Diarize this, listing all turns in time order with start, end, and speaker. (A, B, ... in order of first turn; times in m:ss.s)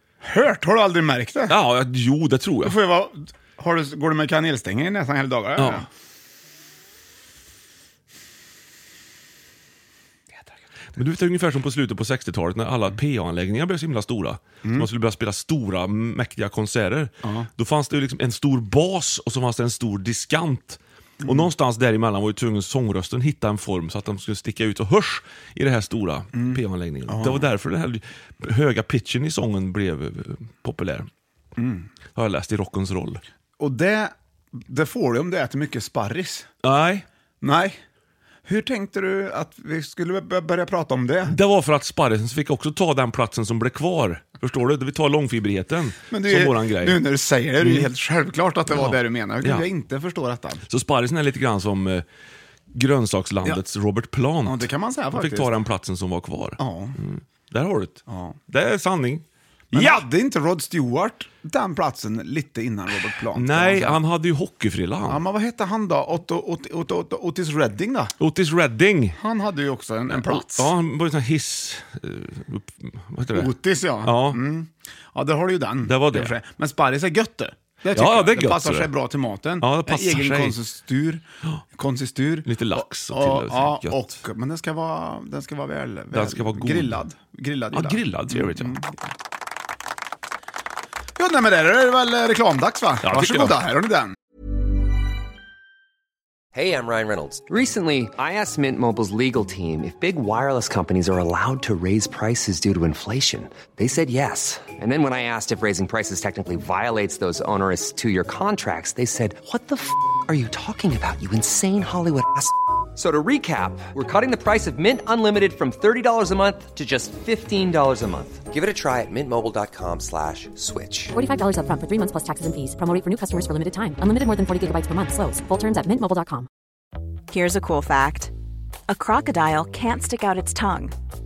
0:00.2-0:01.6 A
0:01.5-0:02.8 B
0:02.6-0:05.9 A
0:05.6-0:05.9 B
0:11.0-0:31.1 B
0:17.2-0:17.5 A
0:21.2-0:21.5 A
0:26.4-0:27.5 A
0:31.6-0:31.9 A
0:32.2-0:33.2 B
0:33.6-0:36.5 A
0:36.6-0:37.1 B
0:37.4-0:37.8 A
0:38.4-0:41.4 A
0:41.3-0:47.0 B
0:46.1-0:50.6 A
0:47.6-0:47.9 B
0:48.7-0:49.7 B
0:50.7-0:52.0 B
0:52.7-1:00.0 B
0:54.4-0:55.5 A
0:56.6-0:57.0 A
0:58.1-0:58.4 A
0:59.7-1:04.0 A
1:03.3-1:05.2 B
1:05.0-1:08.2 A
1:08.2-1:09.2 B
1:09.2-1:10.7 A
1:10.1-1:13.5 B
1:13.3-1:29.1 A
1:14.0-1:14.4 B
1:15.8-1:16.4 B
1:17.9-1:18.9 B
1:19.6-1:20.6 B
1:22.5-1:24.1 B
1:26.1-1:27.0 B
1:27.7-1:28.8 B
1:31.2-1:34.2 A
1:33.0-1:33.6 B
1:36.5-2:01.1 C
2:01.1-2:06.5 D
2:07.3-2:08.3 E
2:08.9-2:11.0 E